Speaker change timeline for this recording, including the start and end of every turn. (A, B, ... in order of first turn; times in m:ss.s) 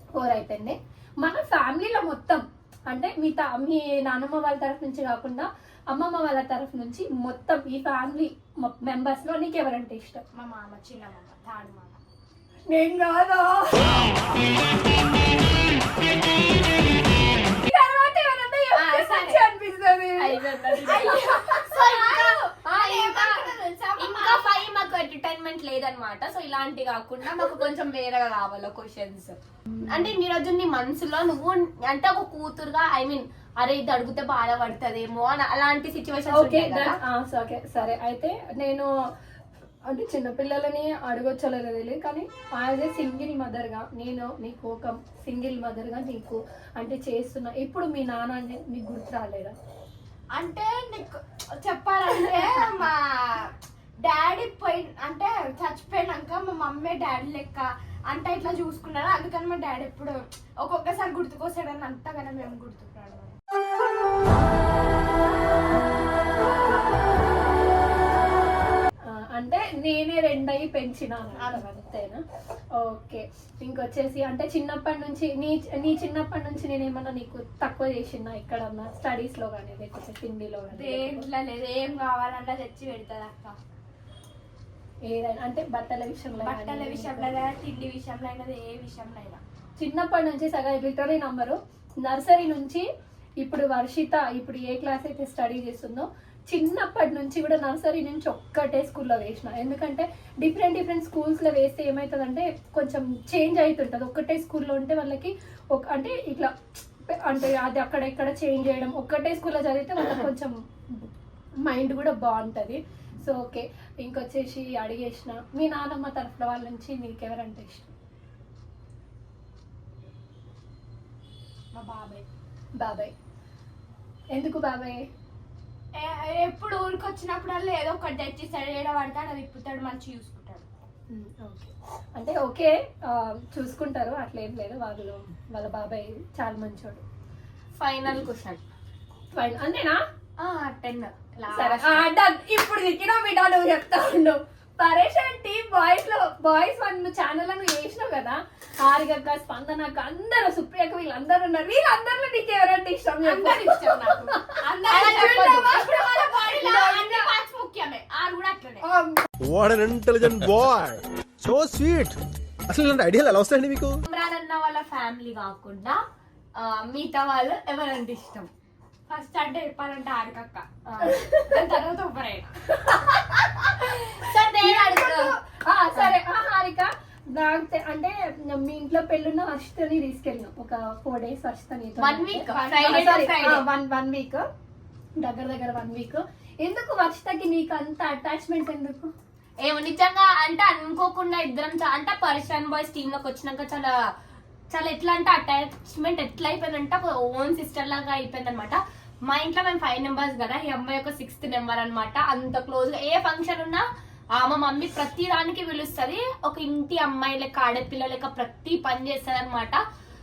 0:00.2-0:10.2 A
0:10.4-0:12.0 B
0:12.7-0:14.0 A
0:17.6-0:21.6 A
0:18.7-0:19.4 B
0:20.2-0:29.4 C
0:20.9-0:24.6 B
0:29.7-0:30.1 A
0:29.9-0:37.0 C
0:36.3-0:38.9 A
0:39.9-0:49.6 A
0:50.3-0:53.5 B
0:54.0-1:03.4 B
1:09.1-1:12.2 A
1:12.8-1:21.3 A
1:20.7-1:23.6 B
1:25.1-1:27.3 A
1:26.4-1:29.4 B
1:29.8-1:32.8 A
1:33.4-1:46.5 A
1:47.1-1:51.0 A
1:51.6-1:57.9 A
2:01.7-2:02.2 B
2:02.8-2:03.1 A
2:04.3-2:05.0 A
2:06.0-2:10.7 B
2:11.1-2:17.0 A
2:17.8-2:18.6 C
2:19.3-2:20.0 A
2:20.4-2:22.1 C
2:21.5-2:37.3 A
2:33.2-2:38.8 B
2:34.9-2:35.8 C
2:38.8-2:39.2 A
2:39.4-2:42.2 D
2:42.7-2:44.0 D
2:44.1-2:46.0 C
2:46.6-2:48.5 C
2:49.1-2:52.5 B
2:50.9-2:51.2 C
2:51.0-2:51.4 A
2:52.9-2:53.1 A
2:54.2-2:55.4 C
2:54.6-3:04.4 A
3:02.0-3:03.6 C
3:02.5-3:03.3 B
3:05.2-3:09.1 A
3:09.6-3:13.9 C
3:14.7-3:23.8 C
3:24.4-3:29.8 C